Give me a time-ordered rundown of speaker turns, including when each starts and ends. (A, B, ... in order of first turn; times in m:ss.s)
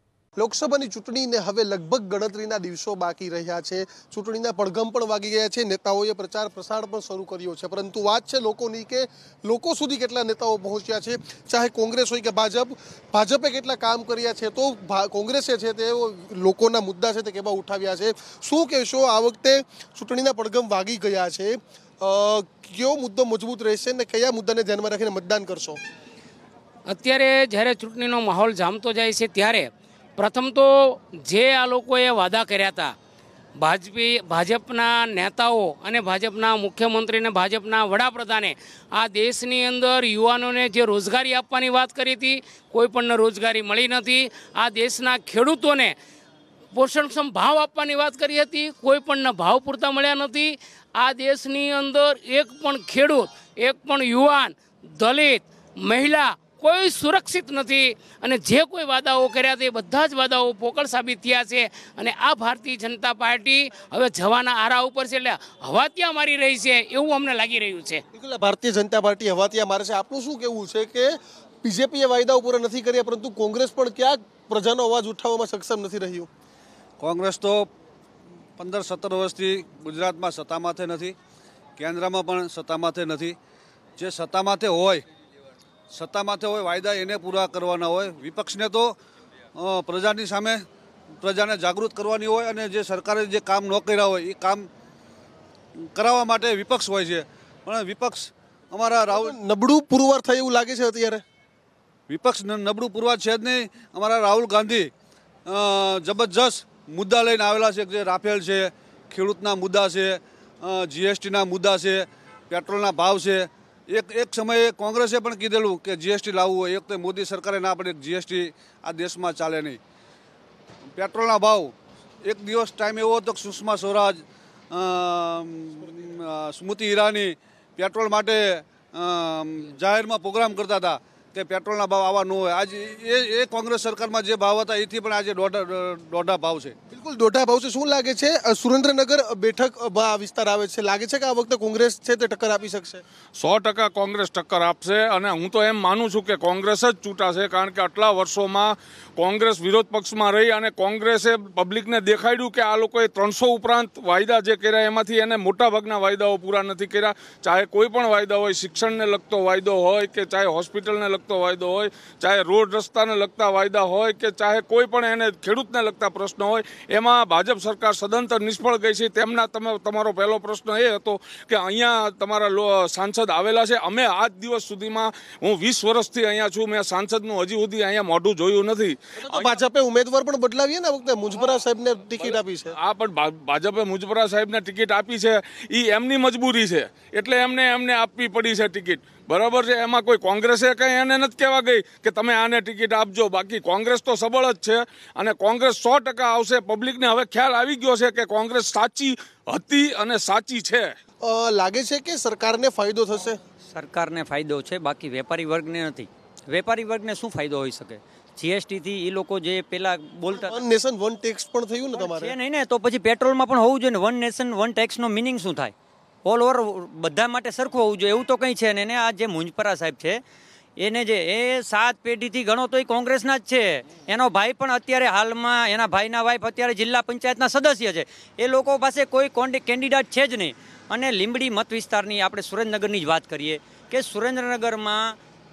0:00.4-0:25.8 A
0:26.9-0:33.0 B
0:33.6-0:46.0 B
0:46.7-1:08.0 B
1:08.2-1:16.3 A
1:17.0-1:17.7 C
1:18.6-1:21.2 C
1:21.8-1:23.4 C
1:24.0-1:25.0 C
1:25.9-1:29.0 C
1:29.6-1:30.6 C
1:31.2-1:34.7 C
1:35.9-1:39.4 C
1:39.1-1:41.2 A
1:42.1-1:44.9 C
1:45.5-1:59.8 C
2:01.0-2:16.8 C
2:16.9-2:23.0 A
2:23.4-2:59.6 D
2:59.2-3:02.7 A
3:02.2-3:21.0 D
3:21.2-3:23.4 A
3:23.7-3:30.5 E
3:30.4-3:32.3 A
3:31.9-3:35.7 E
3:36.2-3:40.2 E
3:40.8-3:55.2 E